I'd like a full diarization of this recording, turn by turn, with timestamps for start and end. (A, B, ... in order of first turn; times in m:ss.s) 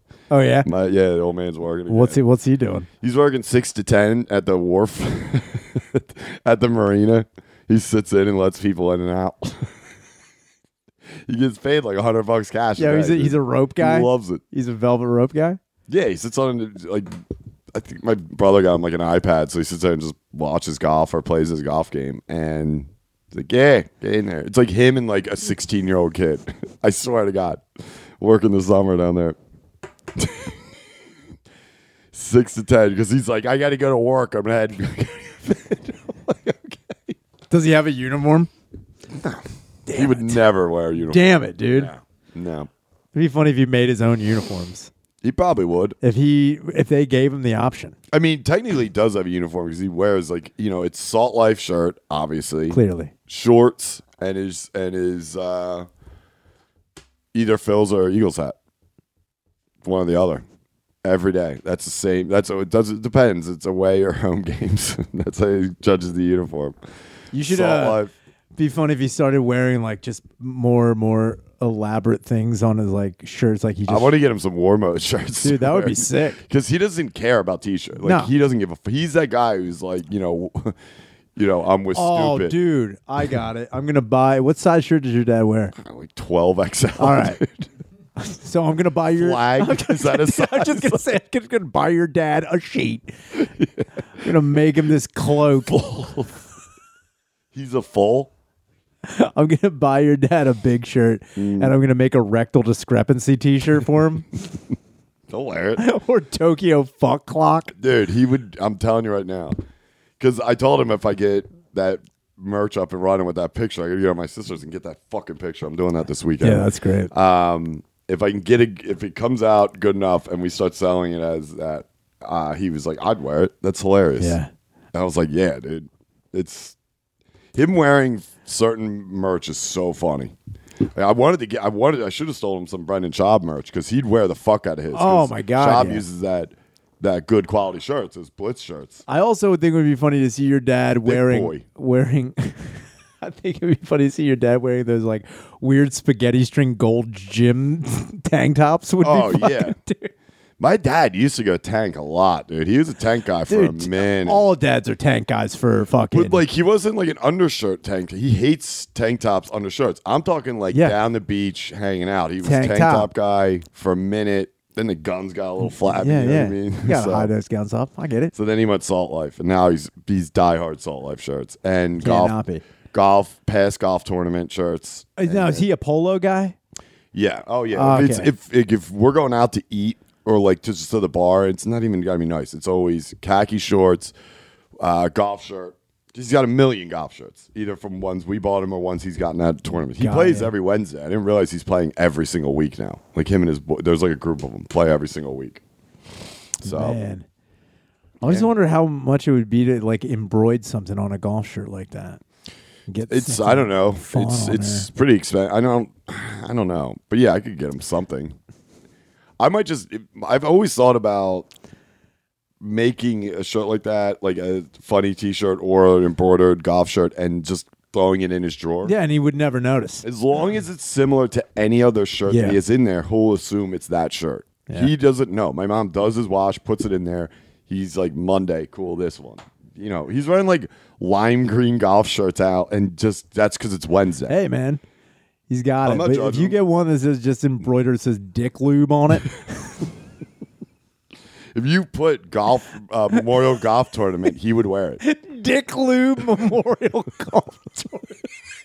0:00.3-0:00.7 A
0:00.6-0:02.2 B
0:01.9-0:02.9 A
0:03.0-0:09.7 B
0:11.3-0:14.4 B
0:12.8-0:15.6 A
0:15.9-0:17.1 B
0:17.7-0:27.6 B
0:28.2-0:29.4 B
0:30.2-0:30.6 B
0:32.1-0:37.2 B
0:37.5-0:38.5 A
0:39.1-0:42.7 B
0:39.9-0:40.4 A
0:41.0-0:41.9 A
0:43.1-0:44.9 A
0:45.2-0:46.0 B
0:46.0-0:48.0 A
0:48.1-0:55.9 B
0:52.7-0:53.1 A
0:57.3-0:58.6 B
0:59.8-1:00.4 B
1:01.0-1:06.8 B
1:07.3-1:08.0 A
1:07.4-1:08.1 B
1:08.6-1:14.1 A
1:13.9-1:20.8 B
1:15.4-1:16.4 A
1:18.0-1:18.3 A
1:21.4-1:22.6 B
1:22.0-1:25.7 A
1:25.8-1:27.7 B
1:27.0-1:27.4 A
1:28.2-1:33.1 A
1:29.1-1:31.1 B
1:33.4-1:33.8 B
1:34.2-1:35.8 A
1:35.7-1:36.5 B
1:37.5-1:38.3 B
1:39.0-1:44.3 A
1:41.4-1:41.7 B
1:45.3-1:45.8 B
1:45.8-1:47.7 A
1:47.8-1:49.6 B
1:50.2-2:04.4 B
1:56.4-1:57.1 A
2:04.2-2:04.5 A
2:04.9-2:06.8 B
2:07.6-2:10.4 B
2:11.0-2:19.0 B
2:14.9-2:16.0 A
2:19.1-2:30.1 A
2:21.0-2:21.6 B
2:29.0-2:29.8 B
2:30.6-2:34.4 B
2:33.5-2:36.4 A
2:36.1-2:47.3 B
2:40.7-2:41.0 A
2:42.4-2:43.1 A
2:45.9-2:48.3 A
2:48.3-2:52.4 B
2:52.0-2:52.6 A
2:52.9-2:55.6 B
2:55.2-2:56.6 A
2:57.1-3:04.1 B
2:57.7-2:58.3 A
3:04.8-3:15.6 B
3:10.0-3:10.5 A
3:16.6-3:17.0 B
3:16.6-3:17.3 A
3:18.2-3:22.2 A
3:18.2-3:18.5 B
3:22.9-3:24.9 A
3:23.1-3:28.4 B
3:29.4-3:31.5 B
3:32.6-3:39.0 B
3:38.8-3:40.0 A
3:40.0-3:54.4 B
3:42.3-3:42.6 A
3:54.3-3:54.8 A
3:55.5-3:59.4 A
3:55.8-3:56.6 B
4:01.5-4:05.0 B
4:05.0-4:08.2 A